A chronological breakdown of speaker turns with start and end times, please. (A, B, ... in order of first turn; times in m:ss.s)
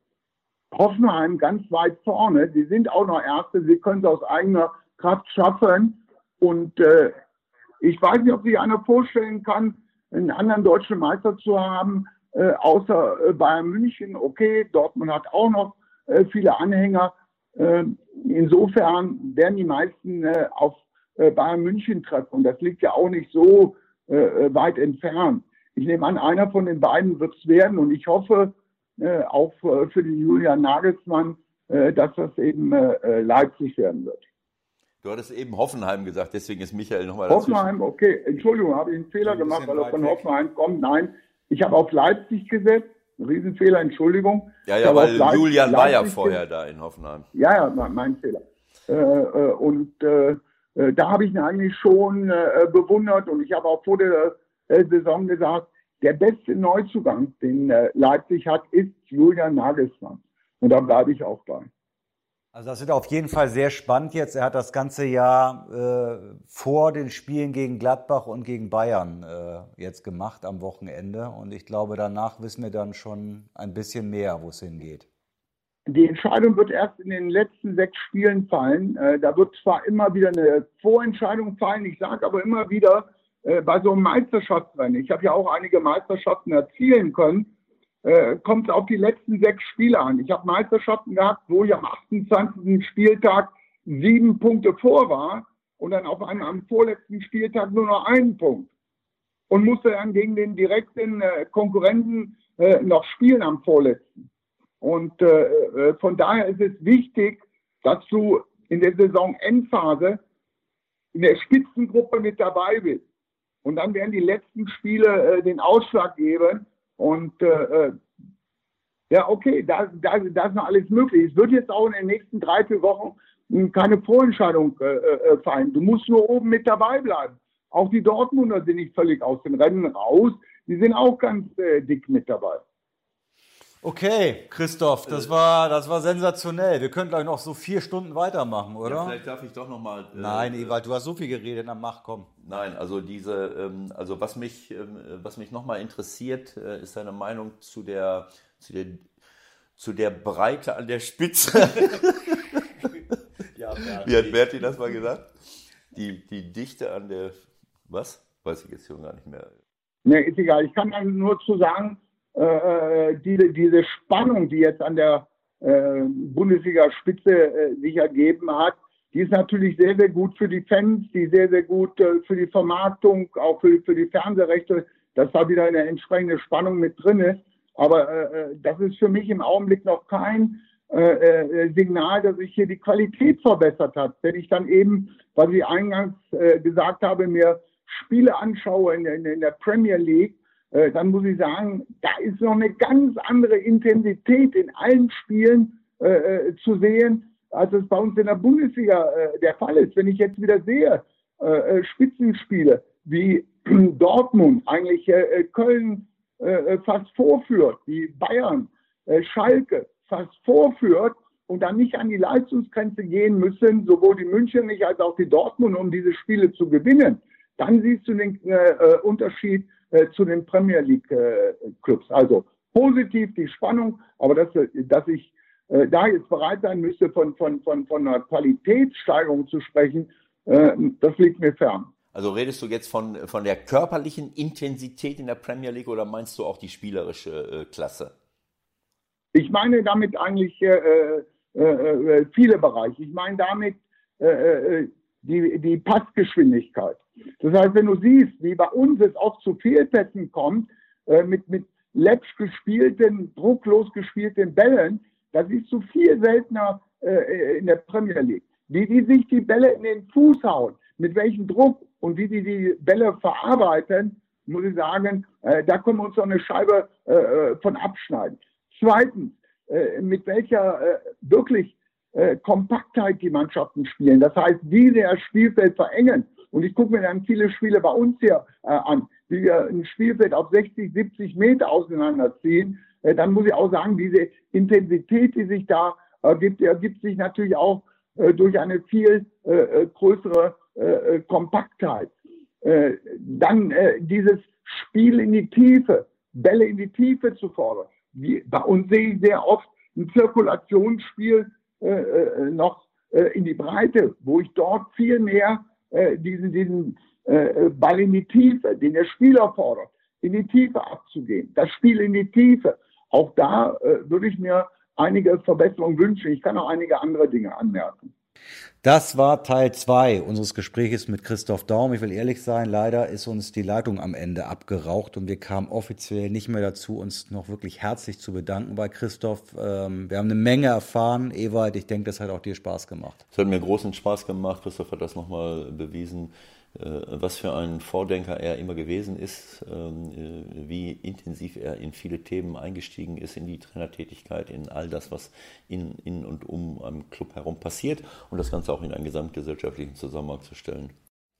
0:00.7-0:07.1 A
0:07.8-0:34.2 A
0:35.0-0:37.7 B
0:37.3-0:46.4 A
0:39.2-0:40.2 C
0:44.6-0:47.3 B
0:47.3-1:01.7 A
1:02.5-1:15.1 C
1:15.9-1:27.5 A
1:28.0-1:38.7 A
1:39.5-1:44.2 A
1:44.8-1:50.2 A
1:51.1-1:53.0 A
1:53.6-1:58.0 A
1:59.1-2:12.6 A
2:13.8-2:19.2 C
2:18.8-2:20.7 B
2:20.1-2:22.3 C
2:22.4-2:29.0 B
2:29.8-2:32.6 B
2:33.6-2:34.4 C
2:33.8-2:37.3 B
2:37.9-2:39.5 B
2:40.0-3:51.9 A
3:52.1-3:58.1 B
3:59.3-5:18.1 A
5:18.8-5:33.2 C
5:33.3-5:50.9 B